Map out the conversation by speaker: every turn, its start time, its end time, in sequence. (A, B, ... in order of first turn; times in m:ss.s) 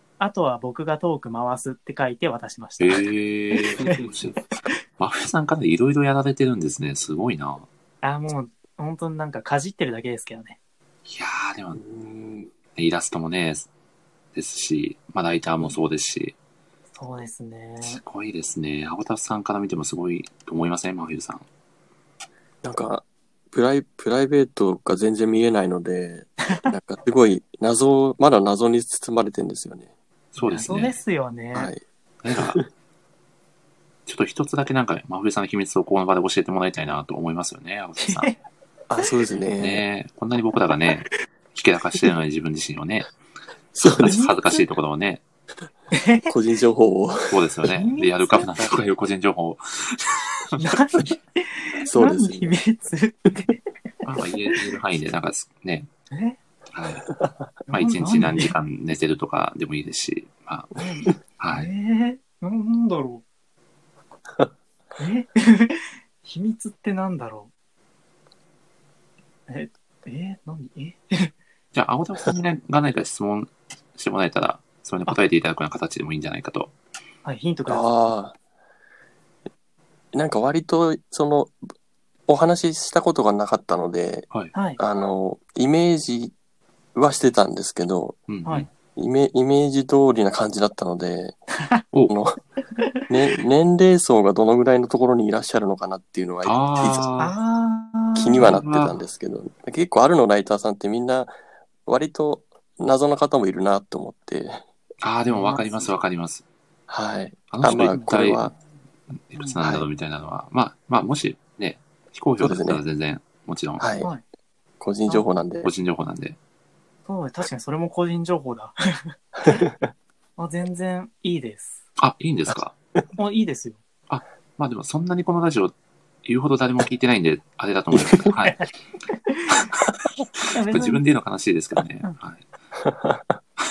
0:00.2-0:04.1 A
0:02.8-0:04.4 B
0:05.0-0:07.7 B
0:08.0-0:10.6 A
0:11.1-0:11.8 B
0:11.8-0:12.5 C
0:12.8-0:13.7 B
0:14.3-0:16.4 B
0:17.0-0:18.0 A
0:17.8-0:21.4 B
0:22.6-0:30.6 C
0:30.4-0:31.0 B
0:30.6-0:31.7 A
0:31.6-0:31.8 C
0:32.2-0:32.6 B
0:32.3-0:32.7 C
0:34.1-0:38.3 B
0:38.0-0:38.4 A
0:38.9-0:39.8 C
0:39.6-0:43.1 B
0:43.8-0:44.2 C
0:43.8-0:45.2 B
0:44.0-0:44.6 A
0:45.9-0:46.3 A
0:46.3-0:47.5 C
0:47.3-0:50.6 B
0:47.7-0:48.6 A
0:50.6-0:53.6 A
0:51.9-0:52.6 C
0:54.0-0:55.9 B
0:56.1-0:56.4 A
0:56.7-0:57.1 B
0:57.7-0:58.5 A
0:57.7-1:01.7 B
1:00.8-1:03.2 A
1:05.0-1:07.5 A
1:09.5-1:11.3 A
1:11.7-1:16.7 B
1:17.2-1:17.9 A
1:17.7-1:18.4 C
1:20.1-1:21.7 C
1:22.3-1:26.3 C
1:24.5-1:24.8 A
1:27.0-1:28.2 C
1:28.3-1:28.7 B
1:29.0-1:31.4 C
1:32.1-1:32.4 C
1:32.8-1:33.1 A
1:33.1-1:37.1 C
1:36.4-1:37.3 B
1:37.2-1:38.5 A
1:38.2-1:41.3 C
1:38.4-1:39.0 B
1:41.9-1:44.6 C
1:45.0-1:46.4 B
1:45.3-1:46.0 A
1:46.9-1:48.5 C
1:47.5-1:48.5 B
1:49.1-1:53.8 B
1:49.4-1:49.6 A
1:49.6-1:49.9 C
1:52.4-1:52.8 C
1:53.8-1:54.1 C
1:54.8-1:55.7 C
1:55.6-1:56.4 B
1:57.1-1:59.7 A
2:00.4-2:01.8 A
2:02.0-2:02.8 B
2:03.2-2:03.8 A
2:04.1-2:08.6 B
2:08.0-2:08.3 C
2:08.4-2:09.7 A
2:10.4-2:12.5 B
2:10.5-2:11.0 A
2:12.8-2:13.4 C